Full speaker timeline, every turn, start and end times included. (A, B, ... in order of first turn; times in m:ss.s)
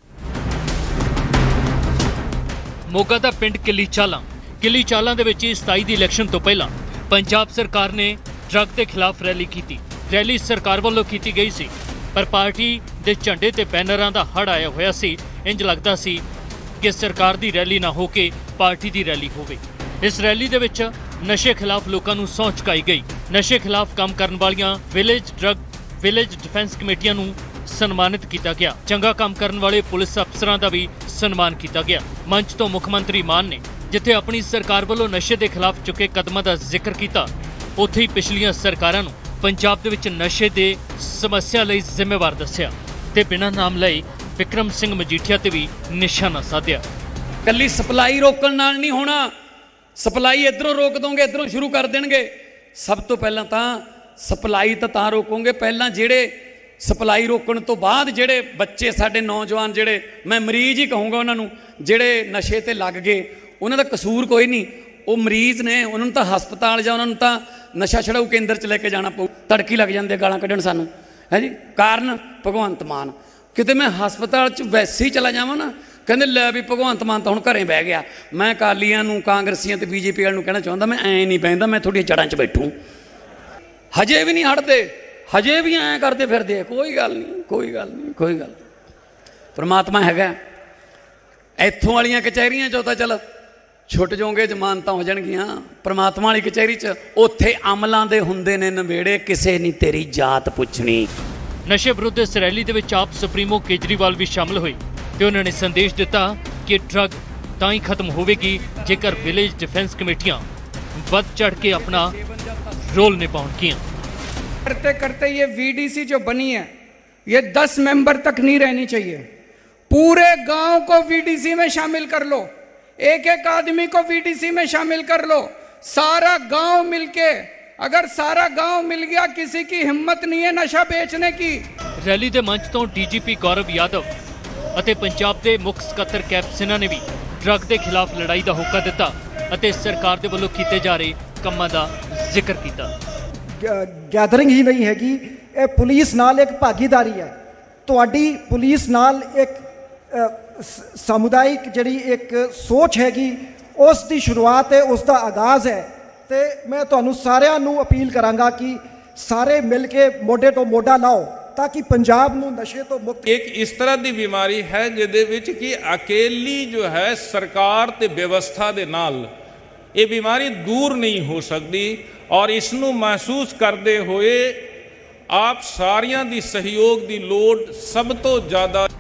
0:02.9-0:16.2 A
0:16.8-0:46.8 A
0:47.4-0:49.3 B
0:50.0-1:22.8 B
1:23.9-1:28.6 B
1:29.6-1:30.4 B
1:31.6-1:33.2 B
1:33.9-1:41.1 B
1:41.7-1:50.4 A
1:51.0-1:52.1 A
1:52.9-1:53.8 A
1:54.7-1:56.7 C
1:57.3-1:59.3 C
1:59.9-2:11.7 C
2:12.0-2:14.1 A
2:14.8-2:22.9 A
2:23.6-2:27.4 D
2:27.9-2:43.3 D
2:43.3-2:49.3 E
2:50.0-2:54.7 E
2:55.3-2:58.9 E